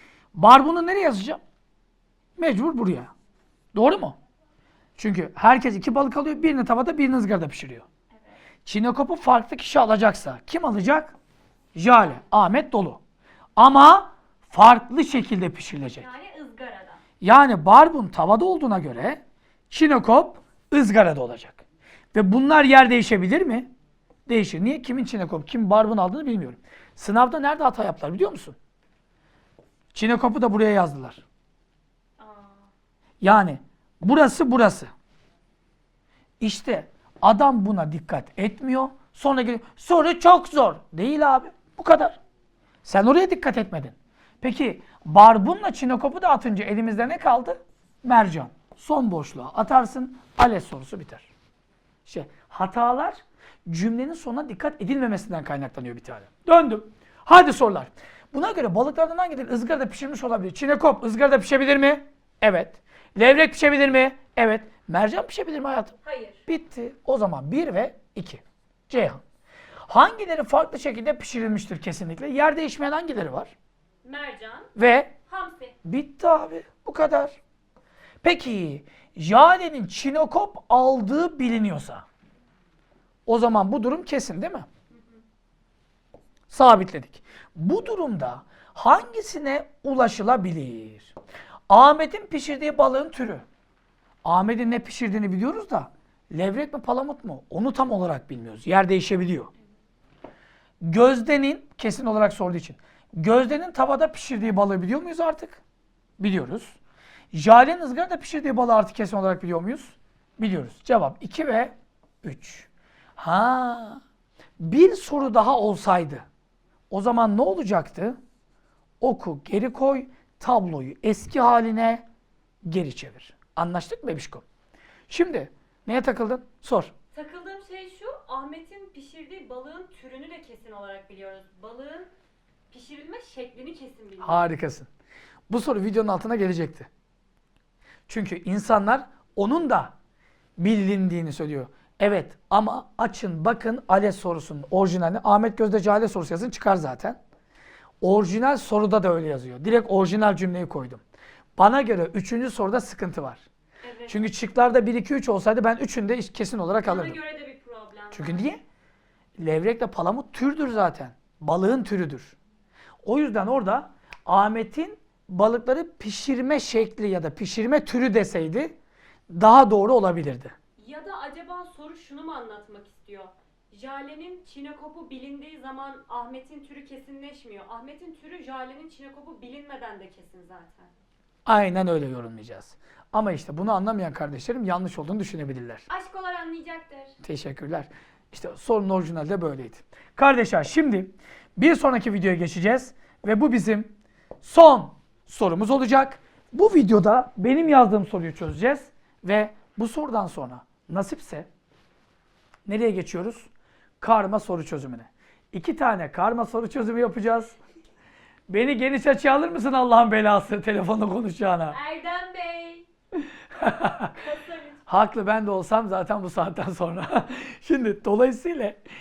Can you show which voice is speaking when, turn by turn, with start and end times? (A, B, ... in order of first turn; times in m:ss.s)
0:00.3-0:01.4 A
0:02.4-0:03.1 A
0:03.7-0:04.2 A
0:05.0-0:07.8 A
0:08.6-0:11.2 A
0:11.7-0:13.0 A
0:13.6-0:16.1 A
0:16.0-0:17.0 B
0:17.2-0:21.6 A
0:22.1-0:23.7 A
0:24.3-0:28.6 A
0:29.9-0:31.2 A
0:32.2-0:32.7 B
0:33.2-0:34.9 A
0:36.4-0:42.2 A
0:42.8-0:51.3 A
0:52.0-1:09.2 A
1:06.0-1:06.4 B
1:09.9-1:13.5 A
1:14.0-1:14.7 B
1:14.8-1:15.1 A
1:15.3-1:15.8 B
1:15.8-1:17.4 A
1:18.2-1:22.0 A
1:23.2-1:24.7 A
1:26.5-1:31.1 A
1:31.7-1:33.4 A
1:34.2-1:39.5 A
1:40.8-1:45.6 A
1:46.2-1:46.8 A
1:47.3-1:54.0 A
1:54.6-1:56.2 A
1:56.9-1:58.2 A
1:59.0-2:02.0 A
2:02.6-2:04.4 A
2:05.1-2:06.9 A
2:07.1-2:12.1 B
2:12.7-2:14.5 B
2:14.2-2:14.9 A
2:15.5-2:16.9 A
2:18.1-2:19.9 A
2:20.6-2:27.2 A
2:28.0-2:31.0 A
2:31.6-2:33.4 A
2:33.8-2:34.2 B
2:34.1-2:37.2 A
2:36.8-2:38.5 B
2:38.1-2:38.6 A
2:39.4-2:42.4 A
2:43.0-2:48.7 A
2:49.3-2:50.5 A
2:50.8-3:00.9 B
3:01.4-3:05.8 A
3:05.9-3:07.2 B
3:07.2-3:13.9 A
3:14.4-3:21.5 A
3:22.6-3:23.5 A
3:24.0-3:27.6 A
3:28.5-3:31.8 A
3:31.7-3:32.9 B
3:33.6-3:34.1 A
3:33.7-3:34.8 B
3:34.9-3:38.8 A